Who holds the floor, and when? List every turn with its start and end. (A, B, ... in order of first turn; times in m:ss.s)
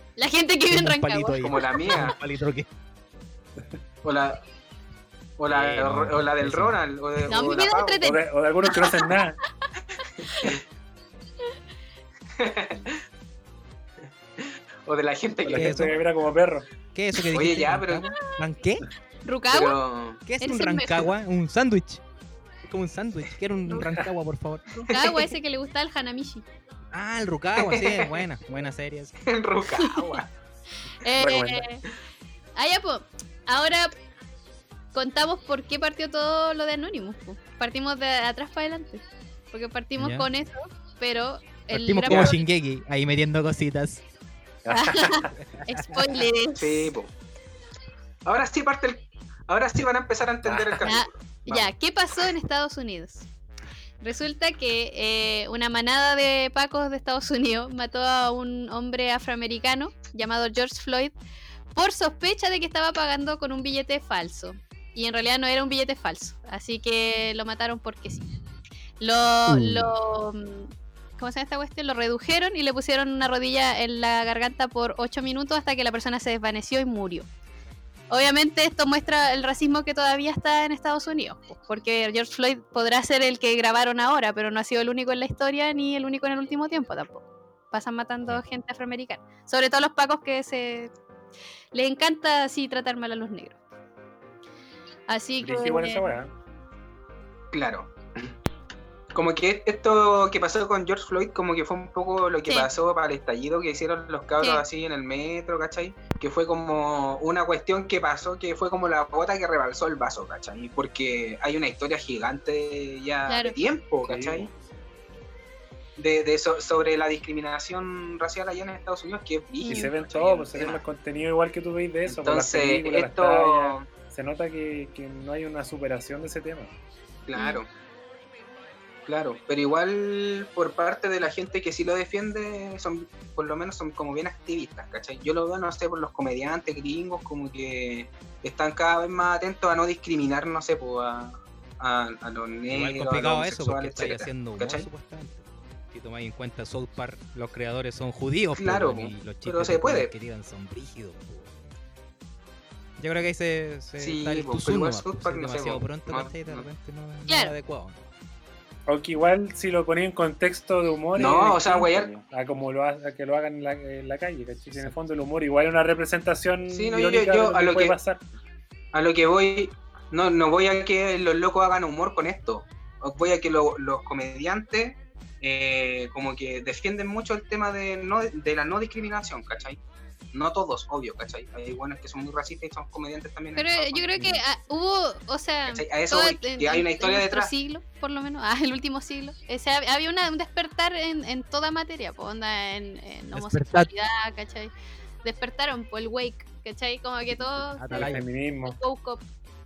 0:00.2-0:01.8 A
0:00.7-0:02.7 B
0:01.4-0:02.2 C
0:04.0-0:04.4 C
0:05.4-0:08.0 C
0:05.5-0:06.8 B
0:07.3-0:09.1 A
0:08.0-0:09.4 D
0:10.2-0:10.6 A
0:10.3-0:10.6 C
0:12.4-0:12.9 C
0:14.4-0:16.0 C
0:15.4-0:16.7 D
0:15.5-0:16.0 B
0:16.9-0:18.8 B
0:17.3-0:18.1 C
0:19.2-0:19.8 A
0:19.5-0:20.2 C
0:20.2-0:22.0 B
0:20.4-0:21.1 A
0:22.7-0:24.7 B
0:23.8-0:24.1 D
0:24.7-0:26.4 A
0:24.9-0:25.3 C
0:26.9-0:29.2 B
0:27.6-0:28.2 C
0:29.2-0:30.3 C
0:29.8-0:30.2 A
0:31.0-0:31.8 A
0:31.2-0:31.6 D
0:32.6-0:33.9 A
0:34.9-0:42.4 A
0:40.0-0:40.3 B
0:41.7-0:44.0 B
0:44.6-0:45.3 D
0:44.7-0:46.9 A
0:45.4-0:46.3 B
0:46.6-0:47.1 C
0:48.2-0:51.7 C
0:50.4-0:50.9 D
0:50.8-0:53.3 A
0:54.0-1:01.1 A
1:01.7-1:08.3 A
1:09.0-1:17.3 A
1:09.5-1:09.9 B
1:18.1-1:30.9 A
1:31.7-1:33.6 A
1:35.1-1:36.1 A
1:35.4-1:36.3 D
1:37.5-1:38.3 C
1:39.1-1:54.5 C
1:53.3-1:53.6 A
1:54.0-1:54.6 D
1:56.0-2:00.8 C
1:59.6-1:59.9 A
1:59.7-2:06.7 D
2:02.1-2:03.9 C
2:07.3-2:07.7 C
2:07.3-2:07.6 A
2:09.0-2:24.9 C
2:22.7-2:31.6 B
2:28.6-2:30.1 C
2:33.0-2:38.0 B
2:34.0-2:36.7 C
2:37.3-2:37.5 A
2:38.9-2:48.3 D
2:41.2-2:42.1 C
2:46.7-2:48.0 C
2:48.9-2:59.8 C
3:00.3-3:04.3 C
3:03.6-3:14.7 A
3:05.7-3:07.5 C
3:13.3-3:13.9 B
3:15.2-3:19.2 A
3:17.8-3:18.2 B
3:17.9-3:18.8 D